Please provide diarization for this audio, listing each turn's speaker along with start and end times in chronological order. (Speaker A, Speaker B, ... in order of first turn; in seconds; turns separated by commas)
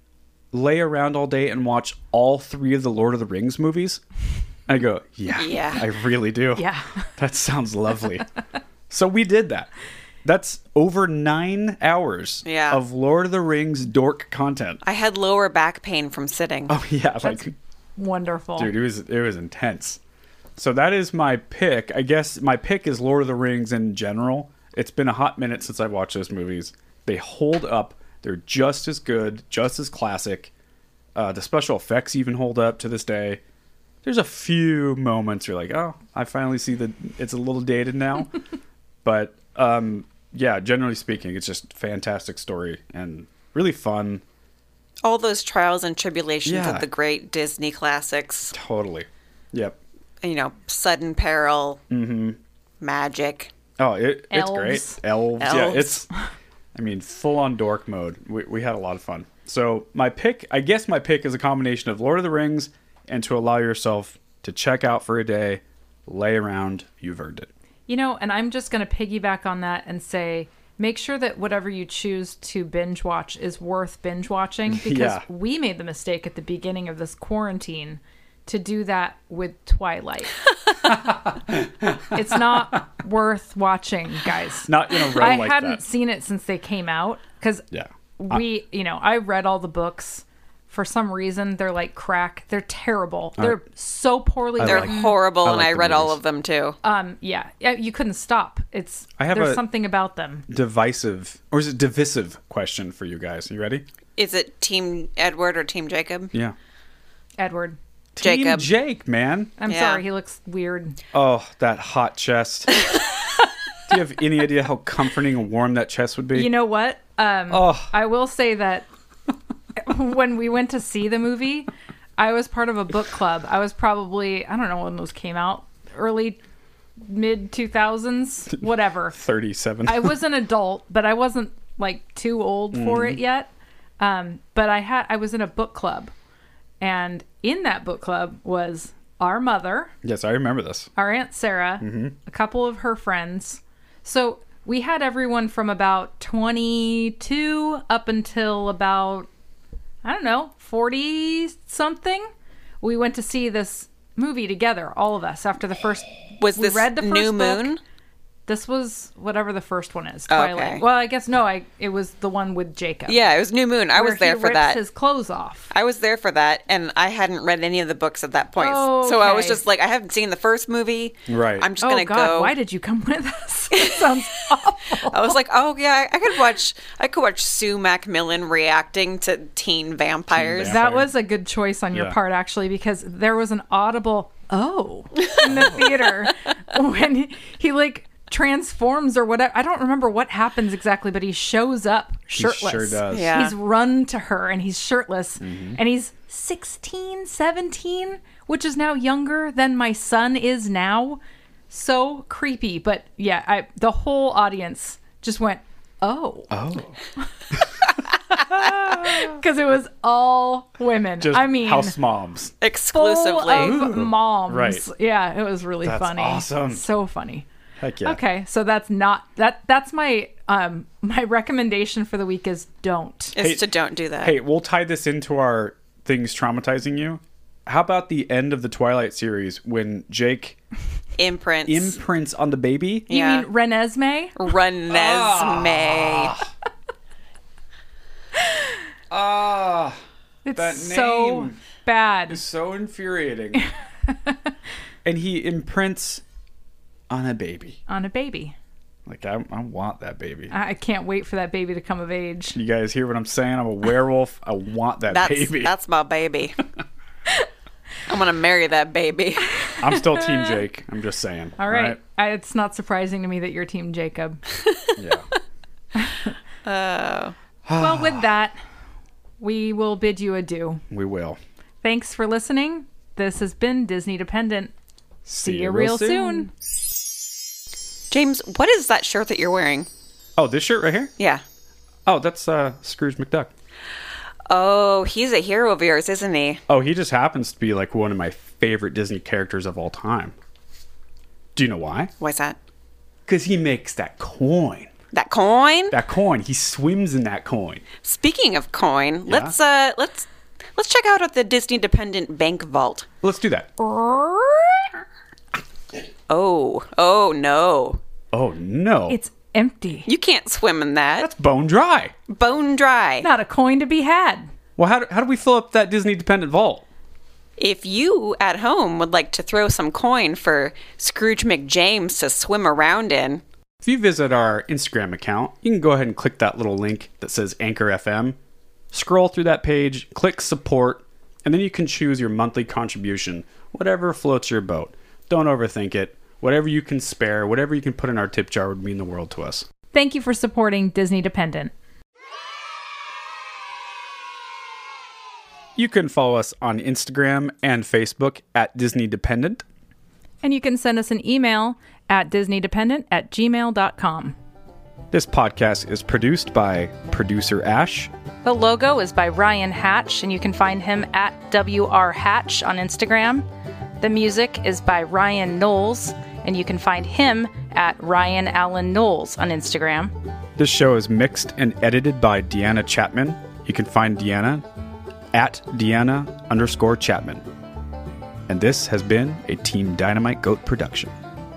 Speaker A: 0.5-4.0, Speaker A: 4.7-8.3, Speaker B: 5.3-5.8, Speaker C: 6.5-7.1, Speaker A: 8.9-9.7, Speaker A: 10.2-14.8, Speaker B: 12.4-12.8, Speaker B: 14.8-16.7, Speaker A: 16.7-17.5, Speaker C: 17.2-18.7, Speaker A: 18.6-20.0, Speaker A: 20.6-30.5, Speaker A: 31.1-33.4, Speaker A: 34.0-38.4, Speaker A: 39.0-44.2, Speaker B: 45.0-48.5, Speaker A: 46.5-46.9, Speaker A: 48.5-49.8, Speaker B: 50.2-51.8, Speaker A: 51.9-52.4, Speaker B: 52.8-53.5, Speaker A: 53.8-56.1, Speaker C: 54.3-55.0, Speaker B: 55.4-56.0, Speaker A: 56.7-67.5, Speaker C: 67.9-80.4, Speaker A: 74.7-75.2, Speaker A: 80.9-82.6, Speaker C: 82.1-87.6, Speaker A: 84.7-85.8, Speaker A: 87.7-88.4, Speaker C: 88.2-95.1, Speaker A: 94.6-96.2, Speaker B: 94.6-96.8, Speaker C: 96.8-100.5, Speaker A: 99.2-99.6, Speaker A: 100.5-103.9, Speaker B: 104.2-106.3, Speaker C: 107.4-107.8, Speaker A: 108.2-109.5, Speaker B: 108.2-108.7, Speaker C: 109.6-111.0, Speaker B: 109.7-110.0, Speaker A: 111.1-112.8, Speaker A: 113.9-116.5, Speaker C: 116.3-118.9, Speaker A: 117.5-117.9, Speaker C: 119.8-126.4, Speaker C: 127.0-129.2, Speaker A: 128.6-130.2, Speaker C: 129.8-136.1, Speaker A: 132.7-133.2, Speaker C: 136.8-139.9, Speaker A: 140.0-140.9, Speaker C: 140.9-149.3, Speaker A: 141.8-142.1, Speaker C: 150.0-152.3, Speaker C: 152.8-157.7, Speaker B: 156.4-157.8, Speaker C: 158.5-163.2, Speaker B: 160.3-160.8, Speaker B: 163.1-164.8, Speaker C: 163.9-165.7, Speaker B: 165.7-172.6, Speaker C: 168.6-169.6, Speaker A: 171.3-171.7, Speaker C: 171.8-175.3, Speaker B: 173.7-174.1, Speaker B: 175.1-180.7, Speaker A: 180.3-181.1, Speaker C: 180.6-206.6, Speaker A: 181.9-182.2, Speaker A: 185.4-185.9, Speaker A: 192.4-193.4, Speaker B: 193.1-193.6, Speaker A: 195.4-195.8, Speaker A: 206.5-206.9, Speaker C: 208.5-212.0, Speaker A: 208.7-209.3, Speaker A: 211.2-212.5, Speaker B: 212.6-213.8, Speaker C: 212.9-217.4, Speaker A: 213.5-214.9, Speaker A: 215.8-216.8, Speaker A: 217.8-218.2, Speaker C: 218.0-223.3, Speaker B: 223.3-224.4, Speaker A: 223.4-223.6, Speaker A: 224.2-230.6, Speaker B: 231.2-232.0, Speaker A: 231.7-233.1, Speaker B: 233.1-233.5, Speaker C: 233.1-234.4, Speaker B: 234.4-236.3, Speaker A: 234.9-236.5, Speaker A: 239.1-240.0, Speaker C: 240.4-242.4, Speaker A: 240.5-241.6, Speaker A: 242.3-243.6, Speaker C: 244.1-244.4, Speaker A: 245.0-246.2, Speaker A: 247.1-247.8, Speaker C: 247.9-248.6, Speaker A: 249.1-250.5, Speaker C: 250.5-252.6, Speaker A: 252.5-255.7, Speaker B: 255.1-256.6, Speaker B: 258.1-259.7, Speaker A: 259.8-262.0, Speaker C: 260.0-260.6, Speaker C: 261.6-264.4, Speaker A: 265.0-265.3, Speaker C: 266.0-266.3, Speaker B: 266.6-267.3, Speaker A: 267.7-268.3, Speaker C: 267.8-268.6, Speaker C: 269.4-270.8, Speaker A: 270.9-271.4, Speaker C: 271.8-274.7, Speaker A: 275.3-276.5, Speaker C: 275.4-276.5, Speaker B: 278.1-279.9, Speaker A: 280.4-281.1, Speaker A: 282.1-283.5, Speaker B: 284.5-286.6, Speaker A: 286.7-290.3, Speaker A: 291.6-292.1, Speaker B: 292.2-292.6, Speaker A: 293.3-294.9, Speaker B: 295.1-296.0, Speaker A: 295.9-297.8, Speaker B: 298.0-303.1, Speaker A: 299.3-299.5, Speaker A: 303.2-303.7, Speaker C: 303.8-305.0, Speaker B: 306.3-308.0, Speaker A: 308.3-309.2, Speaker C: 309.1-310.1, Speaker B: 310.1-311.3, Speaker A: 311.2-312.1, Speaker B: 312.3-313.3, Speaker C: 313.2-314.5, Speaker A: 314.8-316.9, Speaker B: 317.6-323.4, Speaker A: 323.8-328.4, Speaker A: 328.9-339.7, Speaker C: 339.9-341.7, Speaker A: 345.8-349.6, Speaker C: 350.4-354.4, Speaker A: 355.1-358.1, Speaker C: 358.4-363.4, Speaker C: 364.0-370.1, Speaker A: 370.6-374.7, Speaker A: 375.3-377.4, Speaker A: 378.5-381.1